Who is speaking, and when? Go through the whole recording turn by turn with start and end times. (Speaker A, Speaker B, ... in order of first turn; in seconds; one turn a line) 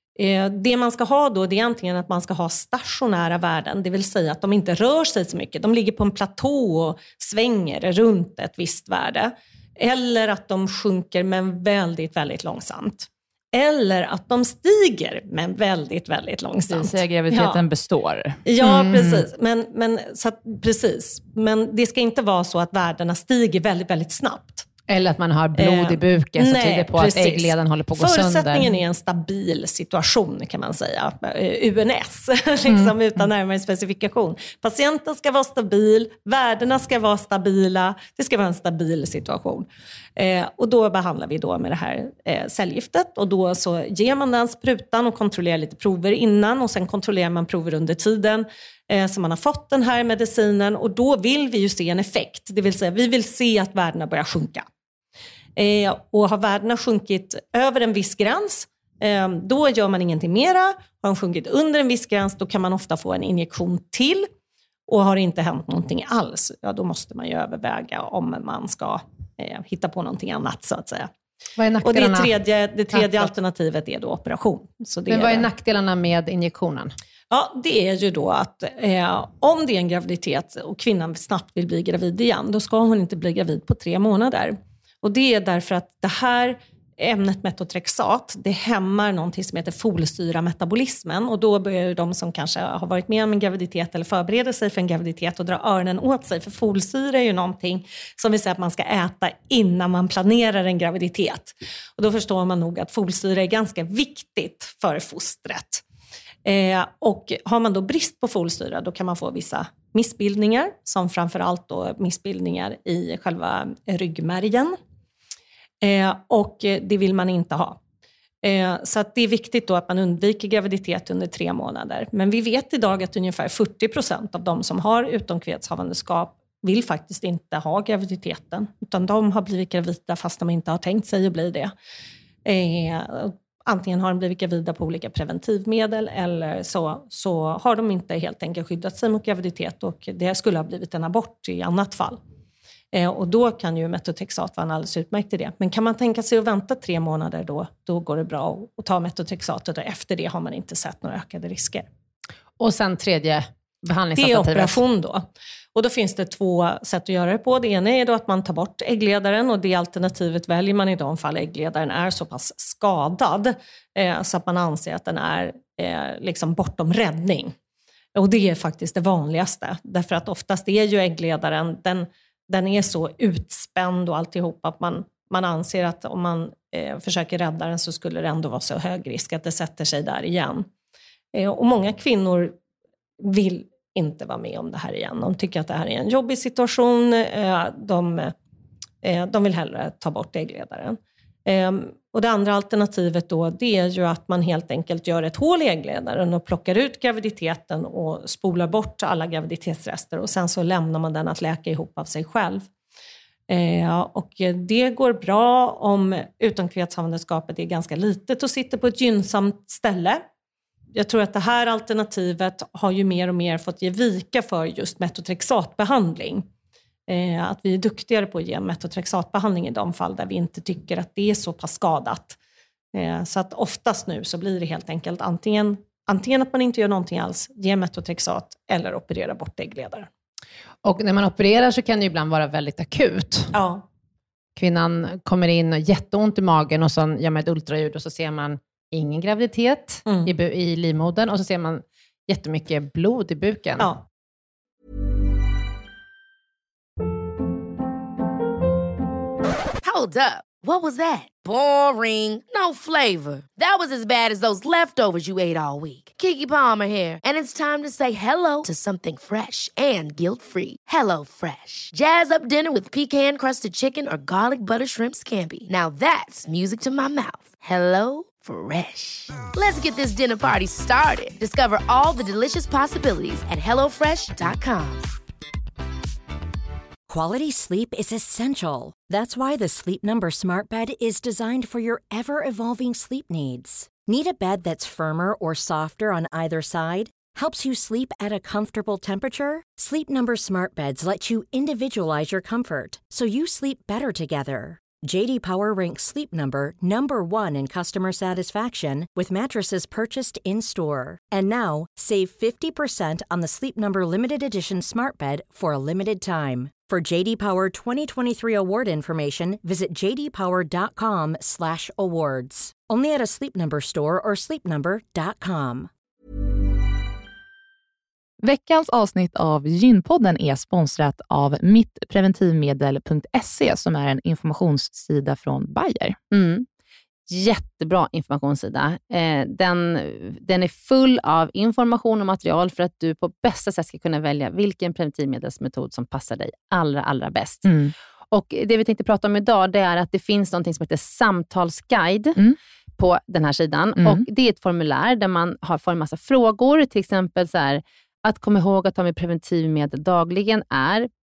Speaker A: 0.2-17.6
Speaker B: 16.7-19.2
Speaker A: 18.4-24.6
Speaker C: 18.6-19.1
Speaker C: 24.9-28.7
Speaker A: 25.6-54.7
Speaker C: 32.7-32.9
Speaker A: 55.5-64.3
Speaker A: 64.9-71.1
Speaker C: 71.6-72.3
Speaker A: 71.8-75.5
Speaker C: 72.9-73.3
Speaker C: 75.1-76.9
Speaker A: 77.3-105.8
Speaker A: 106.4-114.8
Speaker A: 115.8-117.8
Speaker A: 118.4-131.7
Speaker A: 132.4-142.2
Speaker A: 142.9-151.8
Speaker C: 152.6-154.8
Speaker A: 154.2-155.2
Speaker A: 155.7-167.5
Speaker A: 168.1-180.7
Speaker A: 181.3-182.6
Speaker A: 183.2-188.3
Speaker A: 189.0-202.7
Speaker A: 203.5-210.2
Speaker A: 210.9-216.4
Speaker A: 217.1-222.4
Speaker A: 222.9-230.1
Speaker C: 230.8-233.5
Speaker A: 233.5-233.8
Speaker C: 234.6-243.9
Speaker D: 249.8-275.0
Speaker E: 277.1-315.9
Speaker B: 318.4-326.2
Speaker C: 326.3-326.7
Speaker C: 327.3-337.8
Speaker B: 337.7-337.9
Speaker C: 338.3-342.4
Speaker C: 343.0-351.1
Speaker B: 344.0-344.2